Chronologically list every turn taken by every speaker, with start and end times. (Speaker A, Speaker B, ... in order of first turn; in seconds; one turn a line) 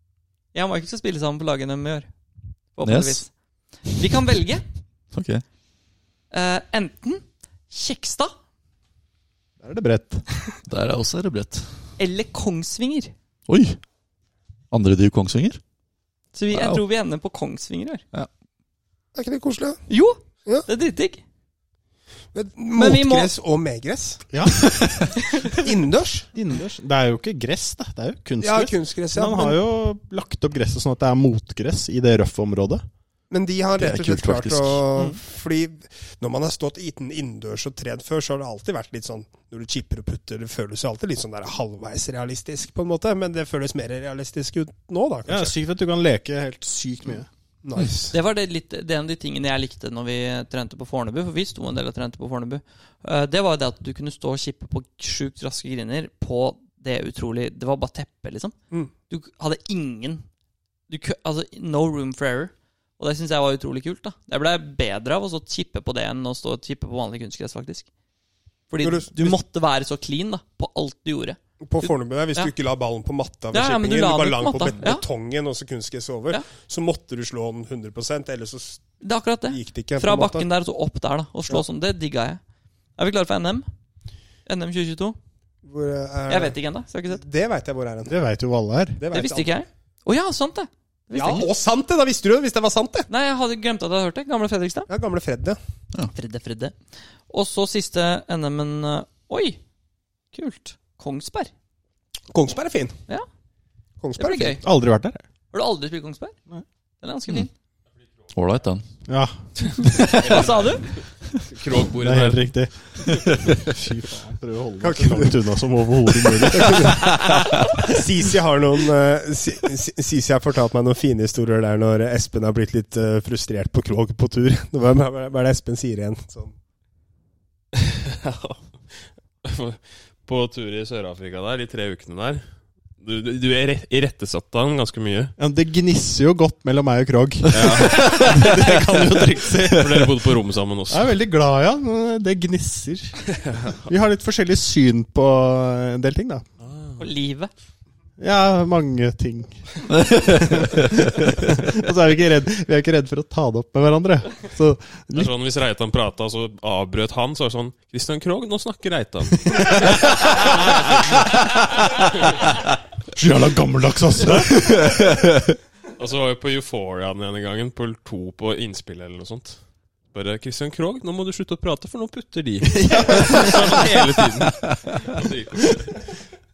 Speaker A: 0.5-2.1
Speaker A: 2.8-3.3
Speaker B: 2.8-3.2
Speaker A: 3.9-4.6
Speaker B: 5.1-5.4
Speaker A: 6.3-8.3
Speaker C: 9.6-10.2
Speaker B: 10.7-11.7
Speaker A: 12.0-13.1
Speaker B: 13.5-13.8
Speaker B: 14.7-15.6
Speaker A: 16.3-18.0
Speaker B: 16.5-16.8
Speaker D: 19.1-19.8
Speaker A: 19.9-21.2
Speaker D: 22.3-24.3
Speaker A: 22.8-23.3
Speaker C: 24.3-25.1
Speaker D: 25.3-26.3
Speaker C: 26.3-32.8
Speaker D: 28.4-29.6
Speaker D: 33.3-45.5
Speaker B: 33.8-34.8
Speaker C: 45.3-47.3
Speaker D: 47.6-48.1
Speaker A: 48.1-58.5
Speaker A: 59.1-60.2
Speaker A: 60.9-67.9
Speaker A: 68.7-72.5
Speaker D: 68.8-69.4
Speaker D: 71.6-78.9
Speaker A: 73.5-75.0
Speaker A: 79.0-82.4
Speaker D: 79.5-80.5
Speaker A: 83.0-83.7
Speaker A: 84.5-85.2
Speaker D: 85.6-86.6
Speaker A: 86.3-87.2
Speaker D: 87.1-88.1
Speaker C: 88.0-89.0
Speaker D: 89.0-89.5
Speaker A: 89.1-91.5
Speaker D: 91.1-93.1
Speaker A: 93.1-94.9
Speaker D: 94.9-95.6
Speaker A: 96.1-96.7
Speaker A: 97.3-99.6
Speaker A: 100.3-101.5
Speaker D: 102.3-103.0
Speaker D: 104.0-104.6
Speaker A: 104.2-104.6
Speaker C: 104.6-105.2
Speaker A: 105.5-106.3
Speaker A: 107.0-107.5
Speaker B: 108.3-108.8
Speaker C: 109.1-109.4
Speaker E: 109.7-112.4
Speaker A: 109.8-110.9
Speaker C: 112.0-117.2
Speaker D: 114.8-115.4
Speaker D: 116.2-126.5
Speaker E: 127.8-128.7
Speaker E: 129.4-132.4
Speaker E: 133.0-135.3
Speaker C: 135.4-140.3
Speaker E: 137.5-141.1
Speaker C: 140.9-143.2
Speaker E: 143.4-143.8
Speaker C: 143.8-146.4
Speaker E: 146.6-147.0
Speaker A: 147.0-147.5
Speaker C: 148.2-155.3
Speaker E: 155.1-161.2
Speaker C: 163.1-165.1
Speaker E: 166.0-169.6
Speaker E: 170.1-176.0
Speaker C: 172.7-173.7